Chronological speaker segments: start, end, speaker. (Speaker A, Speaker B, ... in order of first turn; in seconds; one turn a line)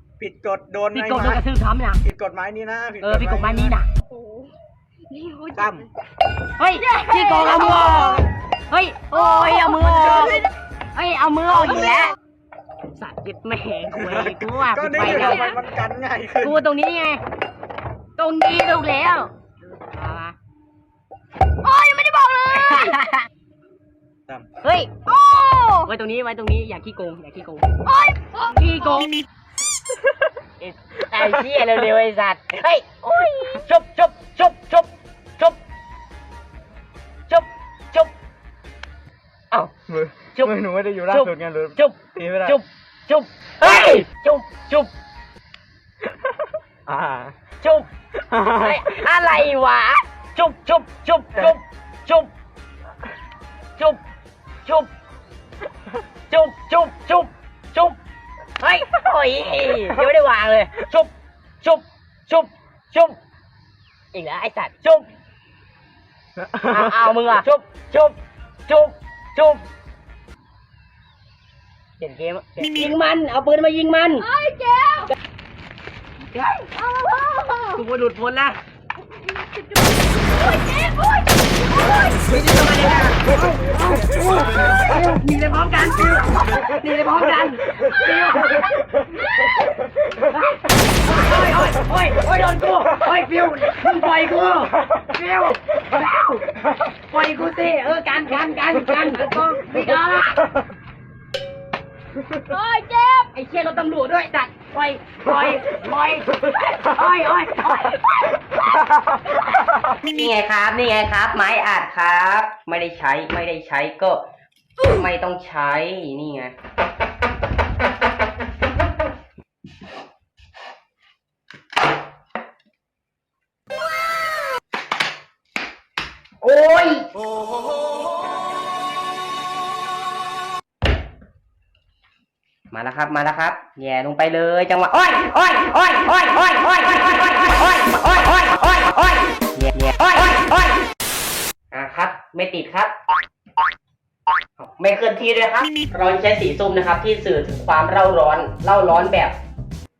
Speaker A: 0.2-1.4
Speaker B: 0.9-2.0
Speaker A: 2.0-3.8
Speaker B: 3.0-3.9
Speaker C: 4.1-4.5
Speaker C: 5.1-5.9
Speaker A: 5.5-5.8
Speaker B: 6.6-8.2
Speaker C: 6.7-8.2
Speaker A: 7.5-8.2
Speaker B: 8.7-10.4
Speaker C: 9.1-10.4
Speaker A: 10.0-10.4
Speaker B: 10.9-12.1
Speaker C: 11.6-11.9
Speaker B: 12.9-15.5
Speaker A: 13.9-16.6
Speaker C: 15.0-15.6
Speaker B: 16.4-17.2
Speaker B: 18.2-19.3
Speaker B: 19.9-20.3
Speaker C: 21.6-23.0
Speaker B: 22.5-23.1
Speaker B: 24.6-24.9
Speaker C: 25.1-25.9
Speaker B: 25.9-27.7
Speaker C: 27.9-29.1
Speaker B: 28.5-29.1
Speaker B: 30.6-35.6
Speaker C: 33.3-33.6
Speaker B: 37.3-38.1
Speaker A: 39.9-42.6
Speaker B: 41.1-44.9
Speaker A: 46.9-47.3
Speaker B: 47.6-47.9
Speaker A: 48.3-48.9
Speaker B: 48.5-52.3
Speaker B: 54.6-54.9
Speaker B: 56.3-58.0
Speaker B: 58.6-61.1
Speaker B: 61.6-63.1
Speaker B: 64.1-65.0
Speaker B: 66.6-68.2
Speaker B: 68.7-69.7
Speaker B: 72.0-74.2
Speaker C: 74.2-75.1
Speaker B: 76.3-76.7
Speaker C: 76.8-77.8
Speaker B: 77.7-78.6
Speaker C: 79.2-82.5
Speaker B: 81.8-88.6
Speaker C: 87.9-88.5
Speaker C: 89.1-89.5
Speaker B: 90.2-96.5
Speaker B: 97.1-100.5
Speaker C: 102.5-103.3
Speaker B: 102.5-108.5
Speaker B: 110.0-114.2
Speaker B: 114.8-116.5
Speaker B: 126.4-127.1
Speaker B: 132.7-140.8
Speaker B: 141.7-142.9
Speaker B: 144.6-149.3